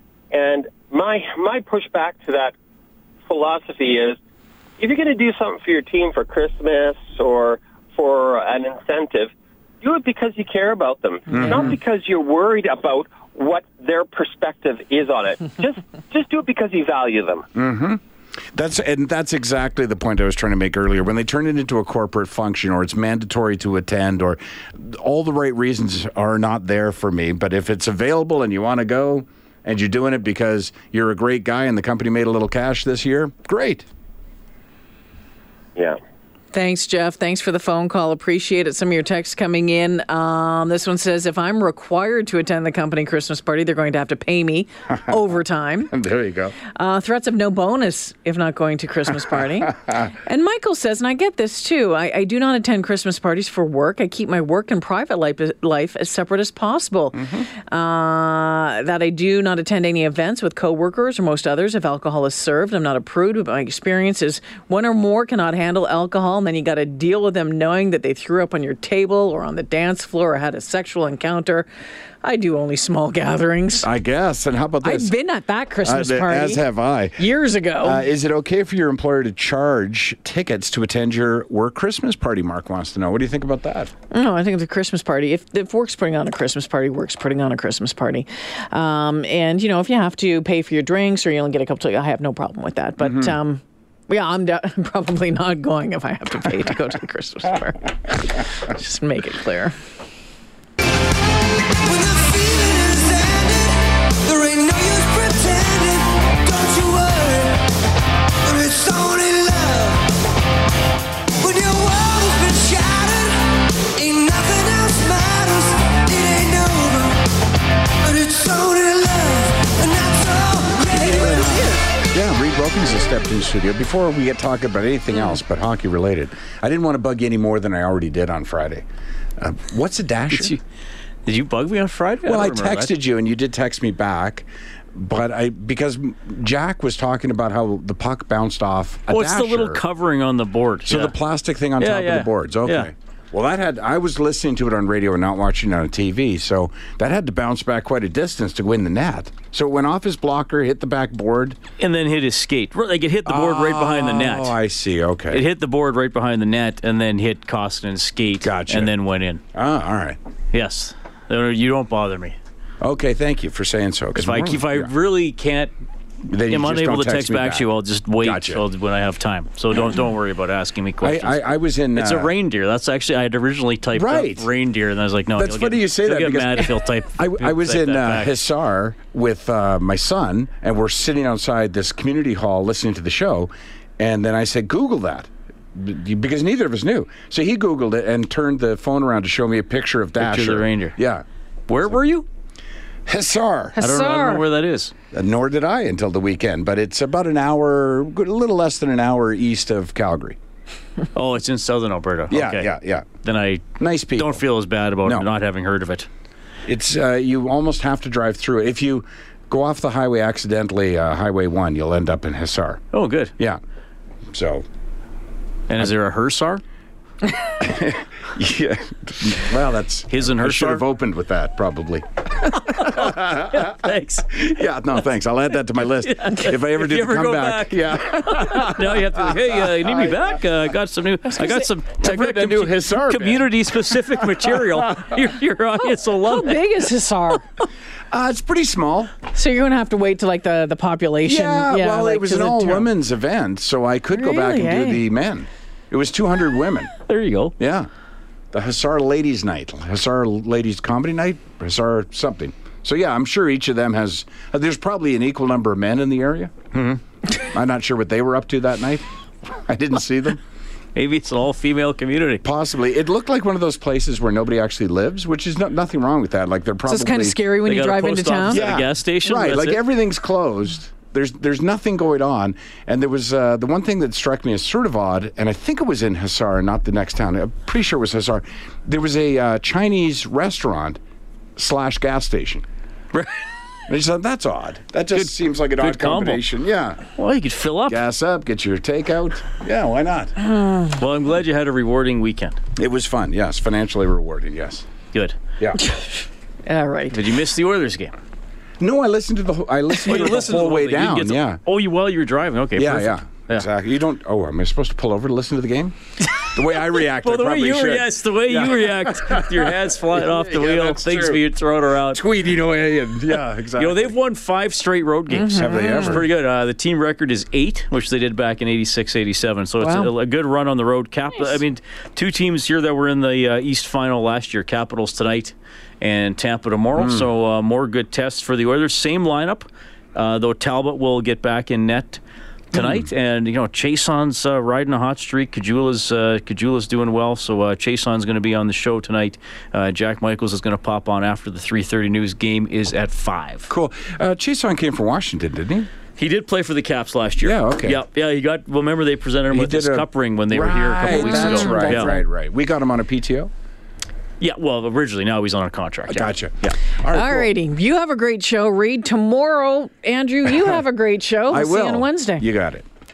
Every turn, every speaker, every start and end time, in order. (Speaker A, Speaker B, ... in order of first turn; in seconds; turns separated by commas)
Speaker A: 0.3-2.5, Speaker A: 3.3-4.2, Speaker A: 4.8-9.3, Speaker A: 9.8-17.4, Speaker B: 11.3-11.8, Speaker B: 17.5-18.0, Speaker B: 18.5-33.8, Speaker C: 36.5-45.9, Speaker B: 45.9-46.5, Speaker C: 46.6-71.7, Speaker B: 57.2-57.5, Speaker C: 72.2-73.9, Speaker B: 73.8-75.1, Speaker C: 74.8-76.6, Speaker B: 75.8-77.3, Speaker C: 77.2-78.0, Speaker B: 77.8-83.9, Speaker C: 84.1-99.7, Speaker D: 101.8-107.7, Speaker D: 108.4-110.1, Speaker D: 111.4-117.3, Speaker D: 118.0-121.5, Speaker B: 120.9-128.8, Speaker B: 129.4-130.6, Speaker E: 130.3-130.6, Speaker E: 131.2-132.9, Speaker B: 132.2-139.8, Speaker E: 139.1-141.2, Speaker B: 140.8-151.6, Speaker E: 141.8-142.9, Speaker E: 151.8-154.5, Speaker B: 153.2-155.4, Speaker E: 155.3-159.4, Speaker B: 158.4-158.9, Speaker B: 159.5-160.2, Speaker E: 160.5-162.4, Speaker B: 162.8-164.9, Speaker E: 164.2-165.7, Speaker B: 166.3-167.7, Speaker E: 166.4-178.3, Speaker B: 168.2-168.6, Speaker B: 171.0-172.3, Speaker B: 173.9-174.5, Speaker B: 175.4-191.2, Speaker E: 190.2-190.9, Speaker E: 191.7-192.2, Speaker B: 193.1-193.8, Speaker C: 193.8-194.4, Speaker E: 193.8-194.9, Speaker B: 195.1-200.4, Speaker E: 201.1-202.7, Speaker B: 202.3-203.2, Speaker E: 203.2-206.1, Speaker B: 203.8-204.4, Speaker B: 206.7-212.8, Speaker E: 212.9-213.3, Speaker B: 214.3-214.6, Speaker E: 215.7-216.6, Speaker B: 217.6-222.2, Speaker E: 220.1-220.8, Speaker E: 222.5-224.4, Speaker B: 222.8-223.7, Speaker B: 224.3-230.2, Speaker E: 226.0-236.6, Speaker B: 232.0-233.5, Speaker C: 236.1-237.6, Speaker B: 238.1-239.1, Speaker C: 239.3-242.9, Speaker B: 241.2-246.9, Speaker C: 244.1-245.0, Speaker E: 247.1-247.5, Speaker B: 247.6-247.9, Speaker B: 248.5-256.6, Speaker E: 256.7-257.0, Speaker B: 257.4-260.4, Speaker E: 260.9-262.4, Speaker B: 262.4-267.4, Speaker C: 266.9-268.7, Speaker E: 267.6-269.8, Speaker B: 268.5-281.0, Speaker B: 281.6-282.6, Speaker B: 283.9-287.0, Speaker E: 285.1-286.4, Speaker E: 287.1-288.0, Speaker B: 287.9-290.5, Speaker E: 290.9-292.6, Speaker B: 292.8-294.9, Speaker C: 296.7-297.2, Speaker E: 297.1-298.1, Speaker B: 298.8-301.6, Speaker E: 300.0-303.6, Speaker B: 302.7-311.4, Speaker E: 307.2-312.2, Speaker B: 312.1-314.1, Speaker E: 313.7-332.2, Speaker C: 315.3-316.2, Speaker B: 315.5-316.2, Speaker C: 319.8-320.1, Speaker B: 326.9-327.3, Speaker E: 332.7-343.7, Speaker B: 332.7-333.0, Speaker B: 343.7-345.9, Speaker E: 346.2-352.1, Speaker B: 347.4-348.0, Speaker B: 349.5-353.5, Speaker C: 351.1-352.2, Speaker E: 354.4-356.7, Speaker B: 356.1-357.5, Speaker C: 357.1-362.4, Speaker B: 361.5-362.9